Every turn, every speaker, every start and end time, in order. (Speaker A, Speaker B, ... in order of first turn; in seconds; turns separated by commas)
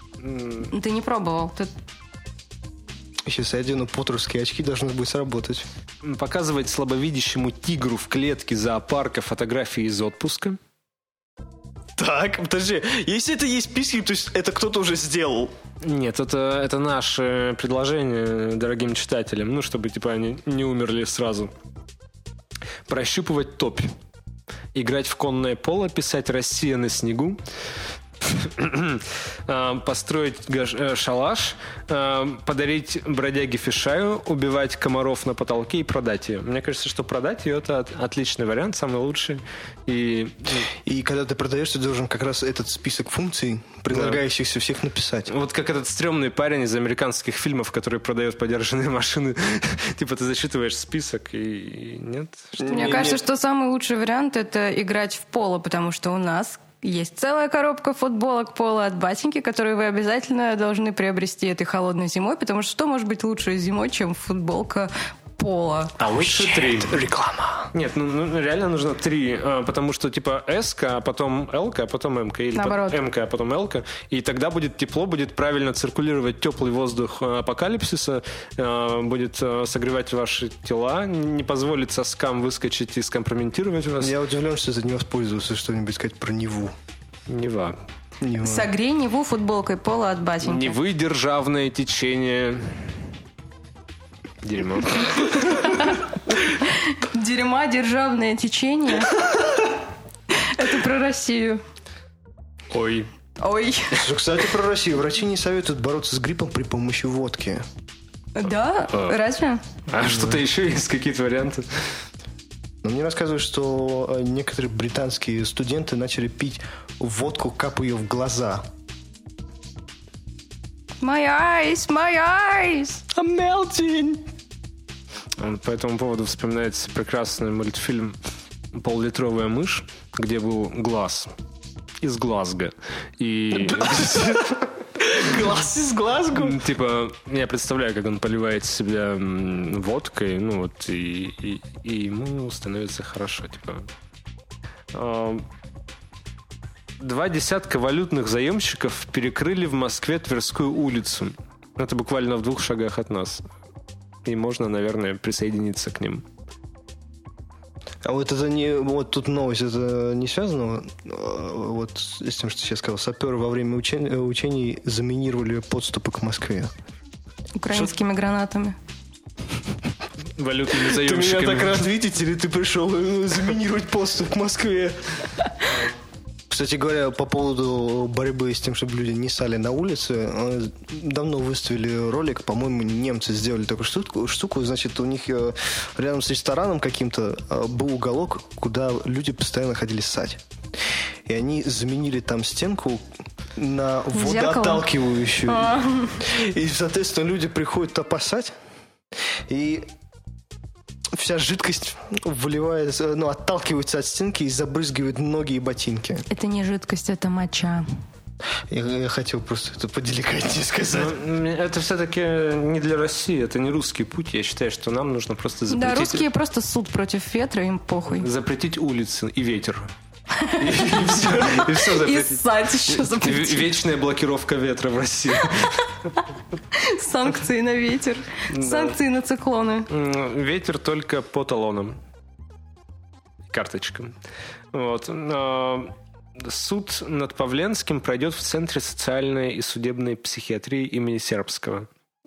Speaker A: 0.2-0.7, Speaker B: 0.7-1.7, Speaker C: 3.3-5.7, Speaker A: 6.0-10.6, Speaker C: 12.0-15.5, Speaker A: 15.8-21.5, Speaker A: 22.9-23.9, Speaker A: 24.7-27.4, Speaker A: 28.2-40.7, Speaker C: 40.7-45.3, Speaker A: 43.9-44.2, Speaker A: 45.3-53.0, Speaker C: 52.6-53.2, Speaker B: 52.6-66.0, Speaker A: 66.0-67.0, Speaker C: 66.2-67.7, Speaker A: 67.7-84.2, Speaker B: 72.5-73.0, Speaker C: 84.0-86.7, Speaker A: 87.3-87.8, Speaker C: 88.2-88.7, Speaker B: 88.4-90.8, Speaker A: 90.4-92.9, Speaker A: 94.4-95.9, Speaker B: 95.4-99.2, Speaker B: 100.3-101.6, Speaker A: 102.7-103.1, Speaker B: 103.4-104.1, Speaker C: 103.9-107.6, Speaker B: 108.3-109.6, Speaker A: 109.9-111.7, Speaker C: 112.8-118.7, Speaker B: 121.0-123.0, Speaker C: 123.1-124.2, Speaker A: 125.4-128.2, Speaker A: 128.7-131.3, Speaker A: 132.0-134.4, Speaker C: 133.5-136.6, Speaker A: 136.3-143.9, Speaker A: 144.9-145.5, Speaker A: 147.0-153.5, Speaker A: 154.2-156.2, Speaker C: 158.0-166.7, Speaker B: 167.6-168.8, Speaker A: 170.4-171.9, Speaker C: 170.7-175.0, Speaker C: 176.5-190.4, Speaker C: 191.3-198.5, Speaker B: 194.2-194.9, Speaker B: 195.4-196.2, Speaker C: 199.5-199.9, Speaker C: 201.1-206.3, Speaker B: 206.3-207.9, Speaker C: 208.7-211.2, Speaker A: 210.9-216.3, Speaker B: 215.7-218.3, Speaker A: 218.2-219.9, Speaker B: 220.3-223.8, Speaker A: 220.6-225.9, Speaker B: 226.7-229.9, Speaker A: 228.5-229.0, Speaker A: 229.9-232.0, Speaker A: 233.5-234.2, Speaker A: 234.7-241.9